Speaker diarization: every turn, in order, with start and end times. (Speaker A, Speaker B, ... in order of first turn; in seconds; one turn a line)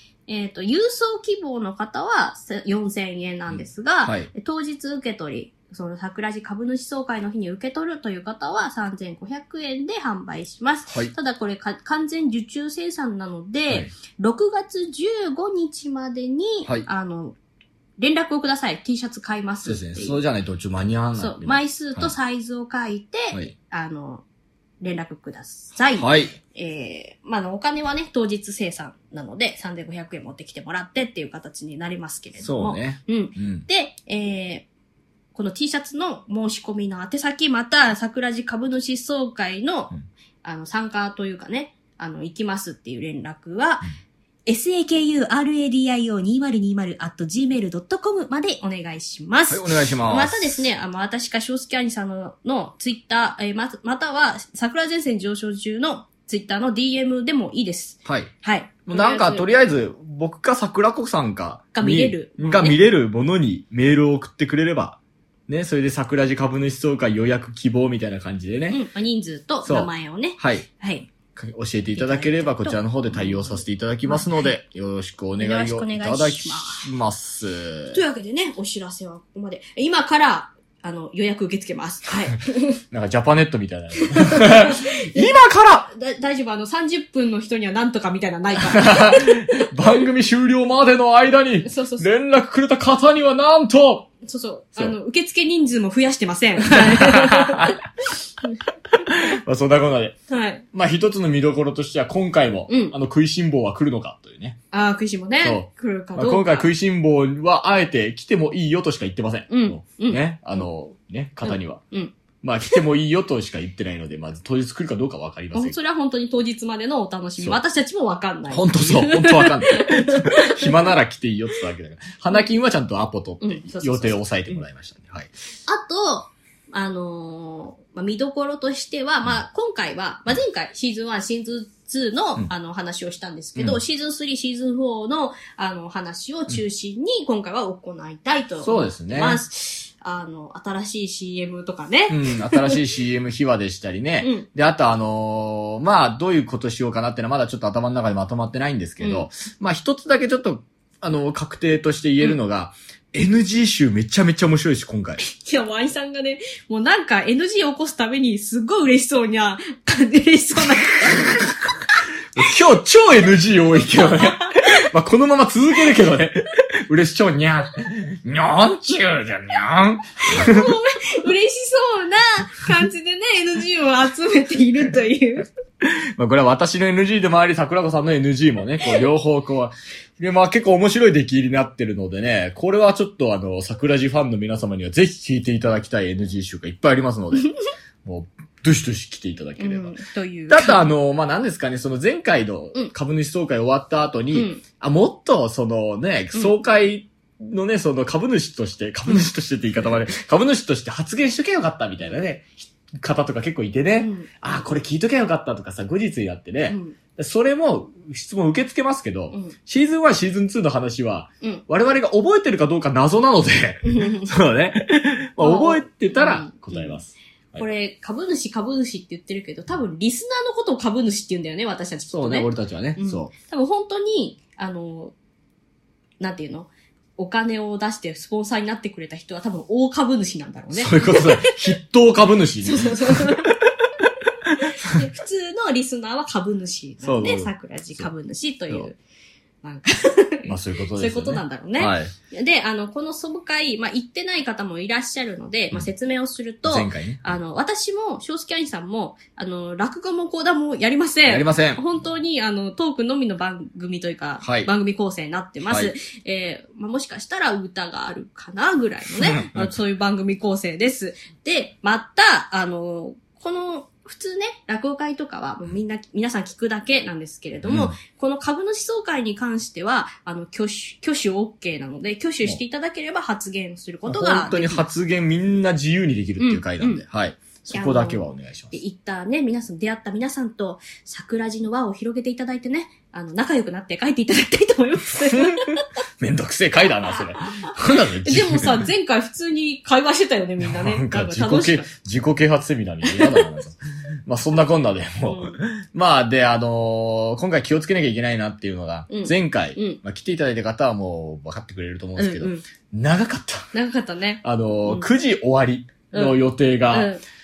Speaker A: 0.3-17.4
Speaker B: 3.5-4.3
Speaker A: 18.0-20.2
Speaker B: 19.6-22.1
Speaker A: 21.2-24.2
Speaker A: 24.8-34.7
Speaker B: 25.9-26.4
Speaker B: 32.4-33.7
Speaker A: 35.3-43.9
Speaker A: 44.5-59.5
Speaker B: 49.5-50.6
Speaker B: 58.0-58.3
Speaker B: 58.9-68.8
Speaker A: 61.7-62.8
Speaker A: 68.7-71.1
Speaker B: 69.6-70.7
Speaker B: 71.4-78.0
Speaker A: 71.9-74.5
Speaker A: 75.4-76.9
Speaker A: 77.9-82.8
Speaker B: 82.9-85.9
Speaker A: 84.0-85.4
Speaker A: 85.9-89.7
Speaker B: 88.6-94.1
Speaker A: 91.7-92.1
Speaker A: 94.2-97.8
Speaker B: 96.7-97.8
Speaker B: 99.1-100.2
Speaker A: 100.3-100.7
Speaker B: 100.7-104.6
Speaker A: 102.7-103.0
Speaker A: 104.7-106.7
Speaker B: 105.4-111.8
Speaker A: 109.5-110.6
Speaker A: 111.5-112.1
Speaker B: 112.4-115.8
Speaker A: 115.5-120.7
Speaker B: 118.5-125.3
Speaker A: 123.4-124.6
Speaker A: 125.7-142.8
Speaker B: 138.6-139.4
Speaker B: 142.1-155.2
Speaker A: 144.2-144.5
Speaker A: 149.0-149.3
Speaker A: 155.2-161.8
Speaker B: 161.2-161.5
Speaker B: 162.4-170.8
Speaker A: 164.0-164.6
Speaker A: 170.2-175.5
Speaker B: 175.8-190.0
Speaker A: 189.6-190.8
Speaker B: 190.5-217.7
Speaker A: 194.3-194.6
Speaker A: 204.0-204.6
Speaker A: 206.7-207.0
Speaker A: 213.8-214.3
Speaker A: 215.4-217.0
Speaker A: 217.6-225.1
Speaker B: 222.1-223.3
Speaker A: 226.2-231.6
Speaker B: 230.7-233.5
Speaker A: 232.6-233.6
Speaker A: 234.7-239.0
Speaker B: 237.0-238.1
Speaker A: 239.6-274.9
Speaker B: 240.5-242.1
Speaker B: 246.7-247.3
Speaker B: 251.3-251.8
Speaker B: 254.4-254.7
Speaker B: 255.7-255.9
Speaker B: 259.2-259.8
Speaker B: 267.6-268.0
Speaker B: 274.1-278.8
Speaker A: 276.4-277.0
Speaker A: 277.7-285.9
Speaker B: 285.3-285.6
Speaker B: 286.2-288.9
Speaker A: 288.2-291.9
Speaker B: 290.6-303.7
Speaker A: 293.1-293.5
Speaker A: 295.3-295.6
Speaker A: 299.1-300.0
Speaker A: 302.2-302.6
Speaker A: 303.7-305.1
Speaker B: 304.4-307.1
Speaker A: 306.9-307.2